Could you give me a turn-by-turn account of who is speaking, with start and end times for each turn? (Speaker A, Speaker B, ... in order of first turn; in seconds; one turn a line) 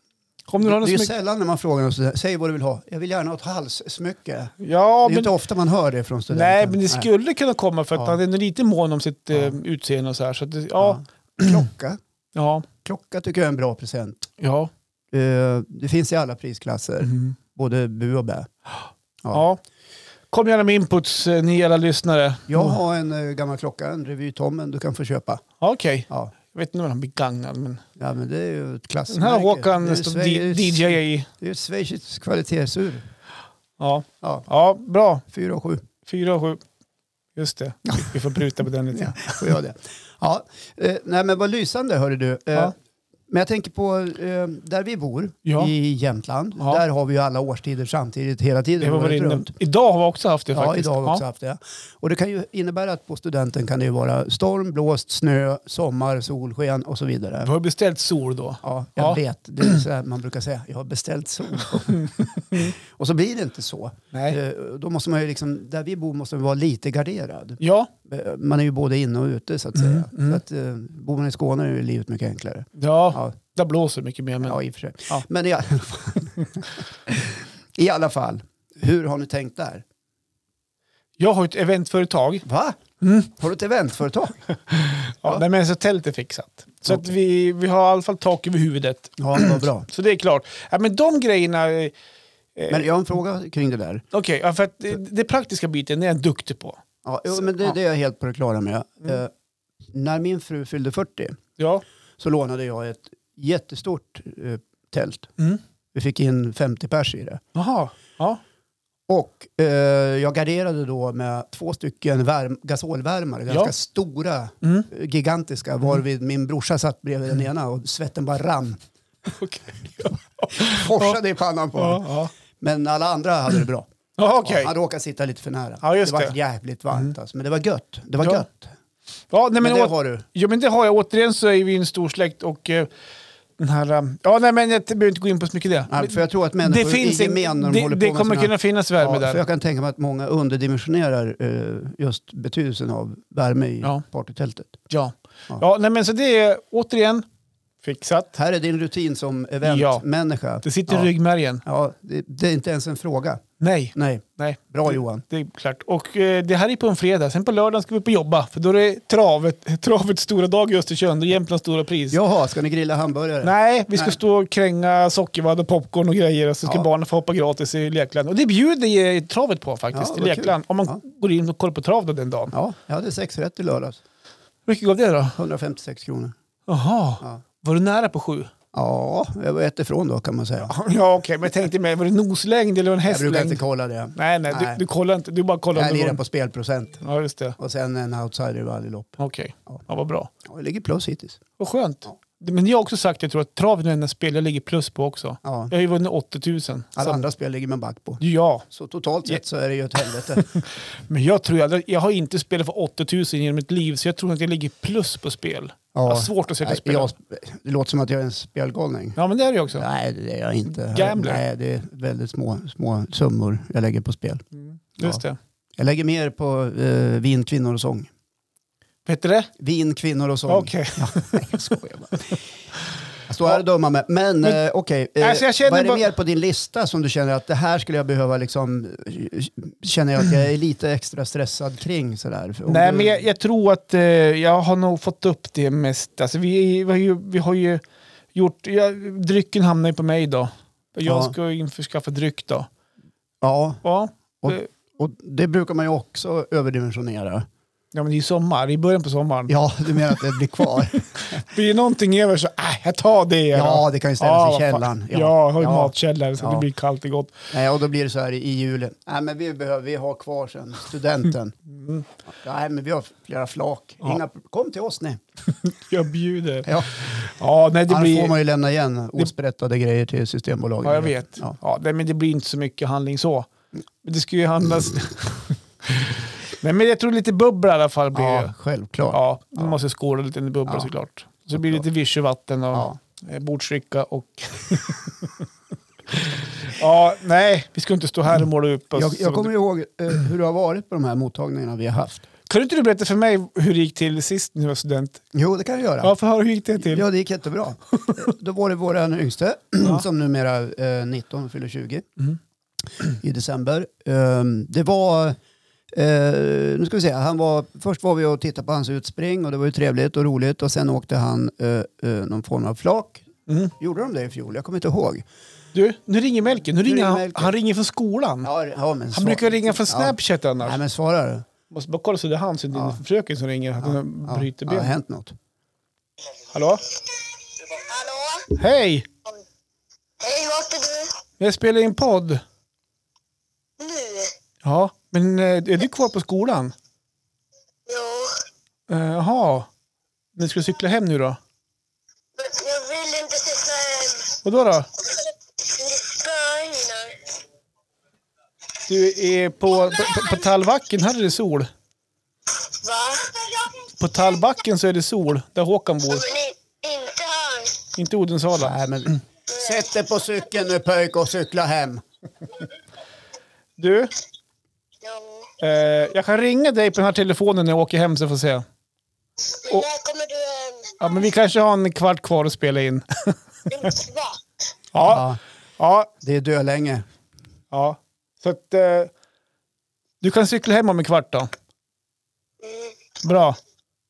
Speaker A: 0.5-1.1
Speaker B: 0.6-7.1
Speaker A: 4.6-5.3
Speaker A: 6.3-11.6
Speaker B: 10.8-12.0
Speaker A: 12.4-12.7
Speaker B: 12.8-14.3
Speaker A: 14.4-14.7
Speaker B: 15.1-18.5
Speaker A: 17.0-17.4
Speaker A: 19.3-19.6
Speaker A: 20.3-22.8
Speaker B: 22.5-25.4
Speaker A: 25.6-27.8
Speaker B: 28.0-33.1
Speaker A: 29.1-31.3
Speaker A: 33.8-35.2
Speaker B: 35.3-35.8
Speaker A: 36.0-36.6
Speaker A: 37.4-39.5
Speaker B: 37.9-38.2
Speaker B: 38.9-42.7
Speaker B: 43.3-49.5
Speaker A: 45.5-45.7
Speaker A: 48.8-51.2
Speaker B: 50.5-57.5
Speaker A: 57.4-59.8
Speaker B: 58.6-73.3
Speaker A: 61.9-62.7
Speaker A: 64.1-64.4
Speaker A: 67.6-67.9
Speaker A: 69.8-70.4
Speaker A: 72.8-75.2
Speaker B: 74.4-79.8
Speaker A: 81.2-82.4
Speaker B: 82.4-82.8
Speaker A: 83.0-83.3
Speaker B: 83.3-84.5
Speaker A: 84.7-91.9
Speaker B: 89.2-89.9
Speaker A: 92.5-92.9
Speaker B: 92.7-94.0
Speaker A: 94.1-96.8
Speaker B: 97.0-99.3
Speaker B: 99.9-101.4
Speaker A: 101.6-101.8
Speaker B: 102.2-105.3
Speaker B: 105.9-107.4
Speaker A: 107.5-108.4
Speaker B: 109.1-118.8
Speaker A: 114.6-114.9
Speaker A: 119.3-121.2
Speaker B: 120.0-122.1
Speaker A: 121.8-122.3
Speaker B: 122.6-123.9
Speaker A: 124.2-124.7
Speaker B: 124.4-128.7
Speaker A: 125.8-126.3
Speaker A: 128.2-128.4
Speaker A: 129.3-132.9
Speaker B: 129.6-130.2
Speaker A: 133.6-139.4
Speaker B: 135.9-144.8
Speaker A: 144.9-147.2
Speaker A: 147.8-148.3
Speaker B: 148.3-151.1
Speaker A: 149.6-150.0
Speaker A: 150.6-151.6
Speaker B: 151.6-153.4
Speaker A: 153.6-162.2
Speaker B: 153.9-155.2
Speaker B: 162.1-164.2
Speaker A: 163.4-172.5
Speaker B: 169.9-171.0
Speaker B: 172.5-174.0
Speaker A: 174.7-175.4
Speaker B: 175.4-176.3
Speaker A: 176.7-178.5
Speaker B: 178.7-180.7
Speaker A: 180.6-183.6
Speaker B: 183.1-184.8
Speaker A: 184.1-186.2
Speaker B: 185.7-187.0
Speaker A: 187.0-187.6
Speaker B: 187.6-189.8
Speaker A: 189.2-190.3
Speaker B: 190.4-191.4
Speaker A: 191.6-197.2
Speaker B: 195.4-195.7
Speaker B: 196.9-200.5
Speaker A: 198.2-198.7
Speaker A: 200.3-207.1
Speaker B: 205.9-209.2
Speaker A: 209.2-209.9
Speaker B: 209.7-214.4
Speaker A: 210.8-211.4
Speaker A: 214.5-215.4
Speaker B: 215.8-218.1
Speaker A: 219.1-219.5
Speaker B: 219.6-222.4
Speaker A: 220.5-221.5
Speaker B: 223.3-233.2
Speaker A: 225.2-226.1
Speaker A: 232.7-237.8
Speaker A: 238.3-242.7
Speaker B: 241.0-241.3
Speaker B: 243.4-243.8
Speaker A: 243.8-244.7
Speaker B: 244.4-247.5
Speaker A: 247.9-250.6
Speaker B: 249.5-251.4
Speaker A: 251.2-257.5
Speaker B: 253.5-256.6
Speaker B: 257.5-261.6
Speaker A: 261.7-262.1
Speaker B: 262.3-265.2
Speaker A: 265.5-268.4
Speaker B: 266.6-266.9
Speaker B: 267.9-271.5
Speaker A: 270.8-273.5
Speaker A: 274.0-278.5
Speaker B: 278.1-279.8
Speaker A: 279.1-285.4
Speaker B: 281.6-281.8
Speaker A: 286.1-289.5
Speaker B: 288.9-292.2
Speaker A: 292.5-295.2
Speaker B: 295.3-296.1
Speaker A: 296.0-297.0
Speaker B: 296.8-302.1
Speaker B: 303.0-305.4
Speaker B: 305.9-313.2
Speaker A: 313.5-313.7
Speaker B: 313.8-315.2
Speaker A: 315.7-318.5
Speaker B: 316.8-317.6
Speaker B: 318.4-321.4
Speaker A: 319.1-320.8
Speaker A: 321.7-324.9
Speaker B: 322.7-323.0
Speaker B: 323.8-325.4
Speaker A: 326.5-326.8
Speaker C: 327.5-328.5
Speaker A: 328.5-329.1
Speaker C: 330.2-331.1
Speaker A: 331.4-332.4
Speaker C: 333.8-334.3
Speaker A: 334.6-336.7
Speaker C: 337.9-338.4
Speaker A: 338.9-339.7
Speaker A: 340.4-341.4
Speaker C: 342.4-344.4
Speaker A: 344.4-344.9
Speaker C: 345.2-347.3
Speaker A: 348.9-351.7
Speaker C: 349.8-350.4
Speaker C: 352.7-353.9
Speaker A: 354.0-356.3
Speaker C: 356.1-357.9
Speaker A: 357.9-359.1
Speaker B: 358.5-362.0
Speaker C: 359.5-359.8
Speaker A: 363.8-364.1
Speaker C: 365.0-365.5
Speaker A: 365.6-368.6
Speaker C: 369.5-371.2
Speaker A: 371.0-373.9
Speaker C: 373.7-374.4
Speaker A: 374.9-376.1
Speaker B: 375.0-375.4
Speaker B: 376.2-377.1
Speaker A: 377.7-379.1
Speaker A: 380.2-381.5
Speaker C: 382.6-383.0
Speaker A: 383.2-383.6